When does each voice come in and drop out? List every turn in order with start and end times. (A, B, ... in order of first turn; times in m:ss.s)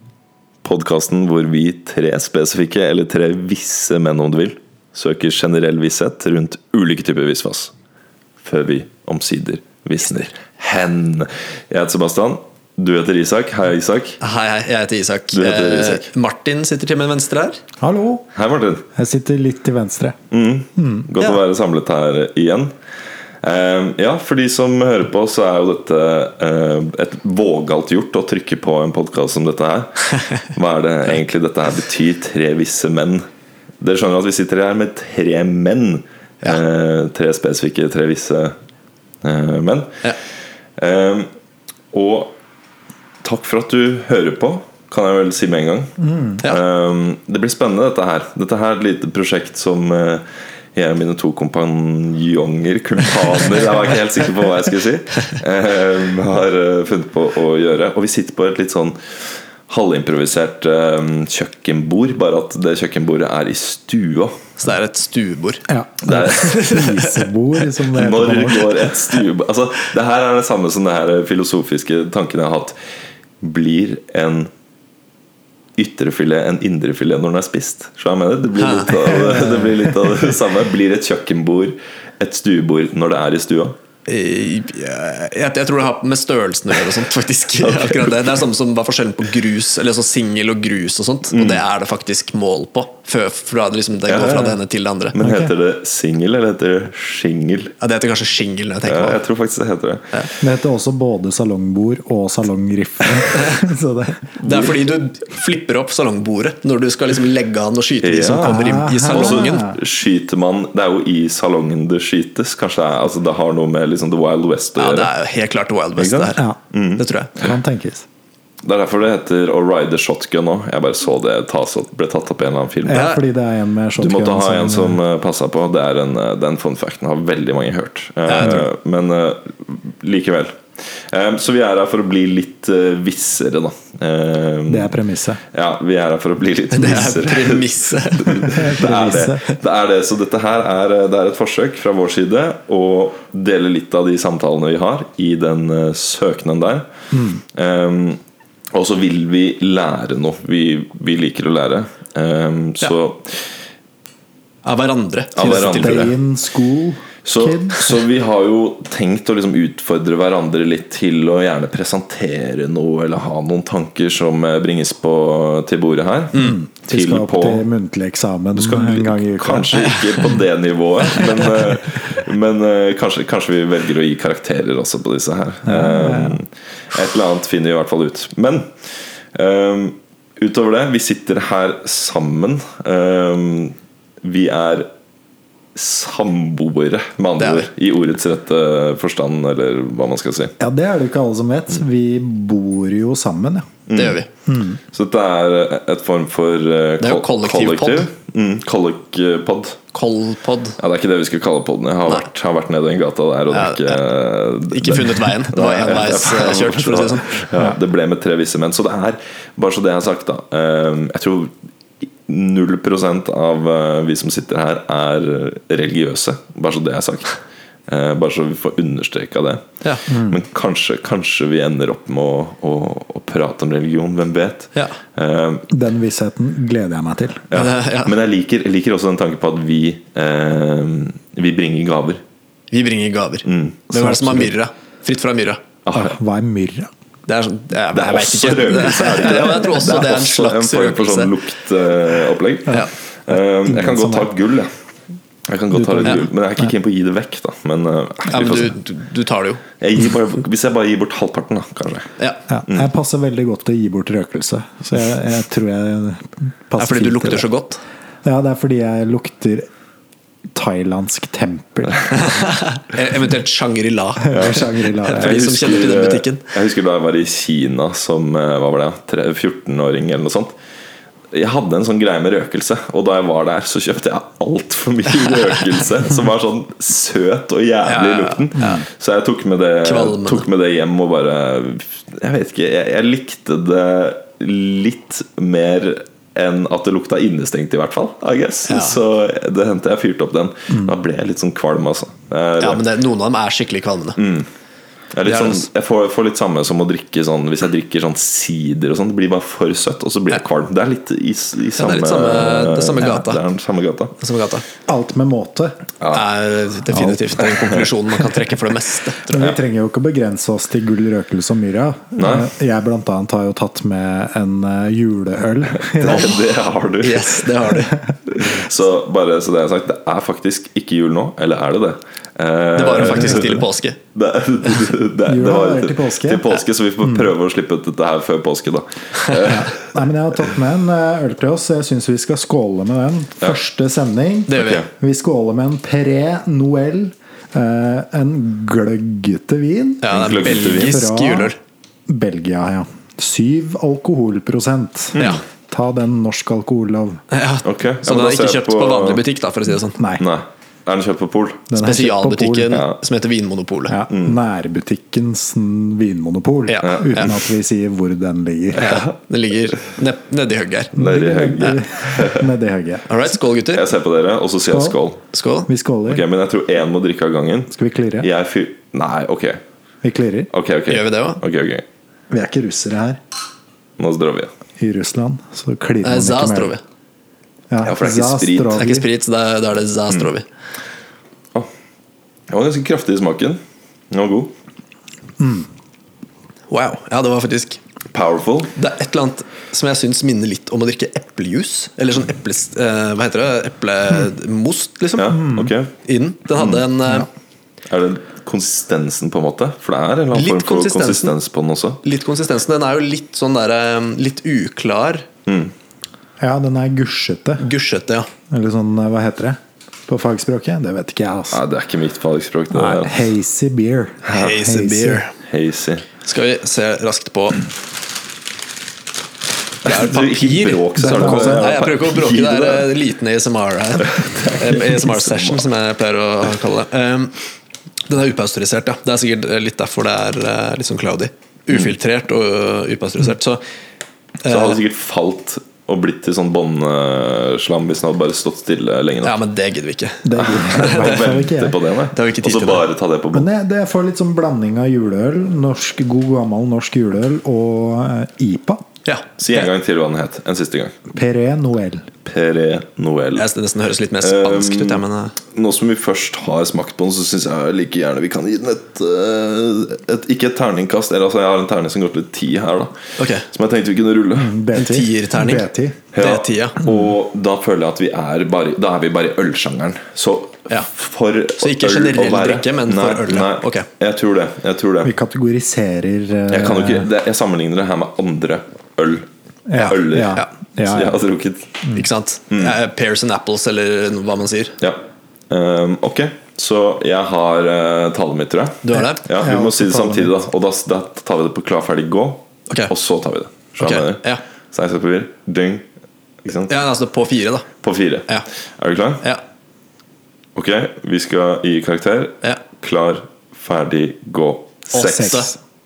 0:00.6-0:07.7 A
0:08.4-0:14.2 A
0:14.2-0:17.6 B
0:15.3-0:16.1 A
0:17.8-0:18.3 C
0:18.3-0:18.8 A
0:19.0-0:20.2 C
0:20.3-0:22.7 A
0:20.8-0:21.1 C
0:23.4-0:33.2 A
0:33.8-0:38.6 A
0:39.2-0:39.9 A
0:40.8-0:41.3 A
0:41.9-0:42.4 A
0:43.2-0:59.2 A
0:59.7-1:04.4 A
1:04.6-1:07.3 B
1:05.7-1:08.8 C
1:06.1-1:06.4 A
1:07.9-1:12.8 A
1:13.4-1:14.5 A
1:15.8-1:23.8 A
1:18.6-1:19.4 B
1:19.3-1:19.9 C
1:24.1-1:35.2 B
1:27.6-1:28.4 A
1:31.3-1:31.6 A
1:34.1-1:34.6 A
1:35.1-1:37.7 A
1:35.2-1:35.5 C
1:37.8-1:39.2 B
1:38.8-1:40.1 A
1:40.4-1:44.6 C
1:44.4-1:49.6 B
1:48.0-1:55.1 A
1:48.4-1:49.8 C
1:54.8-1:56.4 B
1:56.0-1:57.0 A
1:57.0-1:57.3 B
1:57.4-1:58.0 C
1:58.6-2:03.1 A
2:02.8-2:05.0 C
2:02.9-2:03.2 B
2:04.0-2:14.9 A
2:08.3-2:08.7 B
2:14.7-2:15.4 C
2:15.5-2:26.9 A
2:16.7-2:18.6 B
2:18.3-2:19.4 C
2:27.1-2:27.4 C
2:27.5-2:28.2 A
2:28.7-2:33.5 A
2:34.6-2:36.1 B
2:35.4-2:36.1 A
2:35.4-2:37.9 C
2:37.2-2:47.6 A
2:46.4-2:50.0 C
2:48.6-2:58.7 A
2:55.7-2:56.4 C
2:59.3-3:04.9 A
3:05.8-3:10.5 A
3:07.4-3:07.7 B
3:10.6-3:13.7 C
3:13.9-3:14.2 A
3:13.9-3:14.3 B
3:14.5-3:14.8 C
3:14.9-3:19.8 A
3:17.0-3:18.1 B
3:19.9-3:20.8 B
3:20.8-3:31.5 A
3:23.5-3:24.0 B
3:24.7-3:27.5 B
3:32.2-3:37.4 A
3:37.9-3:45.7 A
3:40.1-3:40.4 C
3:45.7-3:47.4 C
3:47.5-3:52.2 A
3:47.5-3:48.1 B
3:52.7-3:55.6 B
3:53.4-3:53.8 A
3:53.9-3:54.5 C
3:55.8-3:56.2 A
3:55.9-3:56.9 C
3:57.3-4:01.3 B
3:57.9-4:04.7 A
4:03.3-4:04.3 C
4:05.5-4:08.8 A
4:05.7-4:06.7 C
4:08.3-4:09.6 B
4:09.8-4:12.1 A
4:12.5-4:17.5 C
4:16.8-4:17.8 B
4:18.2-4:19.7 C
4:20.5-4:22.1 C
4:22.1-4:26.5 B
4:24.2-4:25.5 C
4:24.3-4:30.5 A
4:31.3-4:52.8 A
4:37.9-4:38.8 B
4:38.6-4:38.8 C
4:39.8-4:40.4 B
4:48.7-4:49.0 B
4:52.6-4:54.2 B
4:54.2-4:54.5 A
4:55.1-5:04.2 A
4:55.2-4:55.7 B
5:01.8-5:03.4 B
5:04.2-5:04.6 B
5:04.9-5:05.8 C
5:06.0-5:06.3 A
5:06.1-5:09.5 B
5:09.3-5:16.3 C
5:12.2-5:12.5 A
5:15.8-5:17.5 A
5:16.1-5:16.4 B
5:17.0-5:18.0 B
5:18.3-5:29.8 A
5:22.8-5:24.0 B
5:23.2-5:23.5 C
5:25.3-5:26.4 C
5:27.0-5:27.3 C
5:29.4-5:41.5 C
5:34.5-5:34.8 B
5:34.5-5:34.9 A
5:40.0-5:41.6 B
5:40.1-5:41.0 A
5:42.1-5:45.2 C
5:45.2-5:45.4 A
5:45.2-5:45.4 B
5:45.7-5:47.2 C
5:47.3-5:50.0 B
5:47.6-5:49.2 A
5:50.0-5:50.2 C
5:50.2-5:51.7 A
5:51.7-5:52.8 C
5:51.8-5:54.0 B
5:52.7-5:53.0 A
5:53.9-5:58.9 C
5:54.1-5:54.4 A
5:56.7-5:57.3 B
5:56.8-5:57.3 A
5:58.8-5:59.1 A
5:58.8-6:01.0 B
6:01.0-6:02.5 A
6:01.0-6:03.1 C
6:03.1-6:03.9 B
6:03.7-6:05.2 A
6:04.7-6:05.0 C
6:05.3-6:05.7 B
6:05.7-6:06.2 C
6:06.1-6:09.6 A
6:07.7-6:08.3 C
6:10.0-6:10.5 C
6:10.5-6:11.8 A
6:10.9-6:11.4 B
6:12.3-6:13.2 C
6:14.0-6:14.5 A
6:14.8-6:16.7 C
6:16.0-6:16.8 B
6:17.7-6:19.1 C
6:17.8-6:18.8 A
6:18.8-6:20.5 B
6:22.5-6:23.6 A
6:24.1-6:24.5 A
6:25.4-6:25.7 C
6:26.7-6:27.8 B
6:28.1-6:28.7 A
6:28.8-6:37.3 B
6:35.2-6:35.9 A
6:36.6-6:36.8 A
6:37.9-6:42.0 A
6:40.3-6:41.3 B
6:42.0-6:45.2 B
6:45.5-6:45.7 A
6:46.4-6:47.7 C
6:47.6-6:48.3 B
6:48.5-6:51.6 C
6:51.5-6:53.2 A
6:52.7-6:55.2 C
6:54.3-6:54.6 A
6:54.3-6:55.3 B
6:55.4-6:56.1 A
6:56.2-6:57.6 B
6:59.8-7:07.4 B
6:59.8-7:02.9 A
7:01.0-7:01.7 C
7:04.1-7:05.6 A
7:08.1-7:13.6 B
7:14.4-7:14.8 B
7:14.4-7:19.4 A
7:19.2-7:21.2 B
7:20.2-7:21.8 C
7:20.7-7:23.5 A
7:22.1-7:22.8 B
7:23.3-7:28.8 C
7:29.1-7:29.7 B
7:29.4-7:31.0 A
7:31.1-7:32.1 C
7:32.2-7:33.5 A
7:33.4-7:35.4 B
7:34.2-7:44.6 A
7:43.2-7:43.5 B
7:44.4-7:46.0 C
7:44.7-7:45.6 B
7:46.1-7:55.1 A
7:46.2-7:46.8 B
7:51.6-7:53.9 B
7:55.0-7:57.1 C
7:56.5-8:01.8 A
7:59.7-8:01.2 C
8:01.9-8:04.8 B
8:02.5-8:02.8 A
8:04.8-8:15.8 A
8:08.8-8:09.2 B
8:09.4-8:10.5 C
8:13.8-8:14.4 B
8:16.4-8:16.7 A
8:16.7-8:17.7 B
8:17.8-8:19.2 A
8:20.6-8:25.4 A
8:24.9-8:25.5 B
8:25.0-8:25.6 C